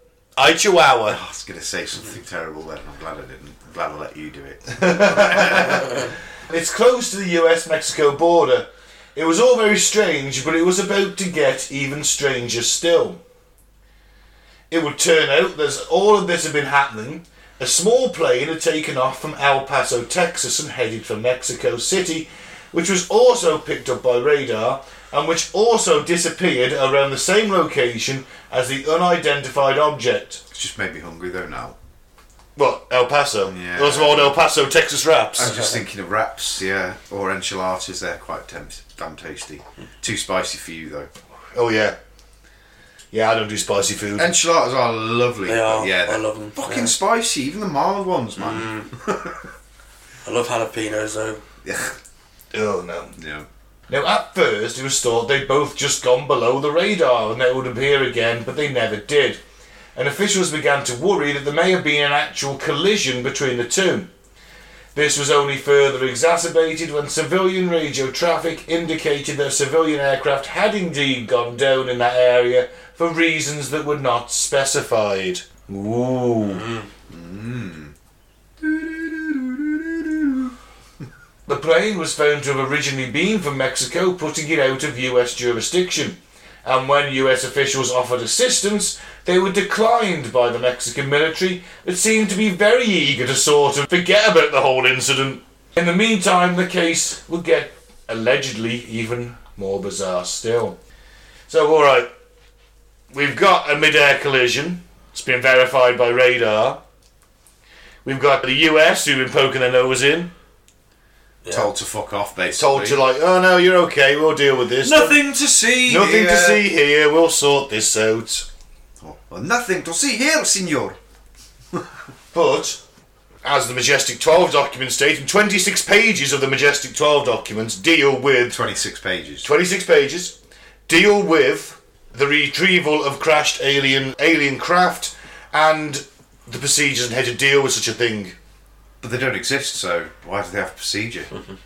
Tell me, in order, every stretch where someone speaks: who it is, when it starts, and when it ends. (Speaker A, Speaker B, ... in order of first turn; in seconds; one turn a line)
Speaker A: 0.4-1.2
Speaker B: 1.1-6.0
Speaker A: 4.7-13.2
Speaker A: 14.7-30.4
Speaker B: 30.5-31.8
Speaker A: 32.6-35.6
Speaker B: 33.5-34.4
Speaker B: 35.4-41.1
Speaker A: 41.5-42.0
Speaker A: 43.1-44.3
Speaker B: 44.2-49.4
Speaker C: 45.5-46.9
Speaker C: 48.4-48.9
Speaker C: 50.2-51.4
Speaker B: 51.6-52.0
Speaker A: 52.5-53.1
Speaker B: 53.2-53.5
Speaker A: 53.9-59.4
Speaker A: 60.0-64.1
Speaker A: 64.9-76.6
Speaker C: 76.6-76.9
Speaker B: 77.1-77.9
Speaker B: 78.6-80.5
Speaker A: 81.5-100.8
Speaker A: 101.5-102.1
Speaker A: 103.1-106.8
Speaker A: 108.0-110.3
Speaker B: 111.5-113.0
Speaker A: 112.6-115.2
Speaker B: 114.8-116.7
Speaker A: 115.9-118.5
Speaker B: 119.0-121.0
Speaker A: 122.3-122.8
Speaker A: 123.4-128.6
Speaker B: 128.5-129.5
Speaker A: 129.4-130.3
Speaker A: 130.9-138.3
Speaker B: 139.0-141.3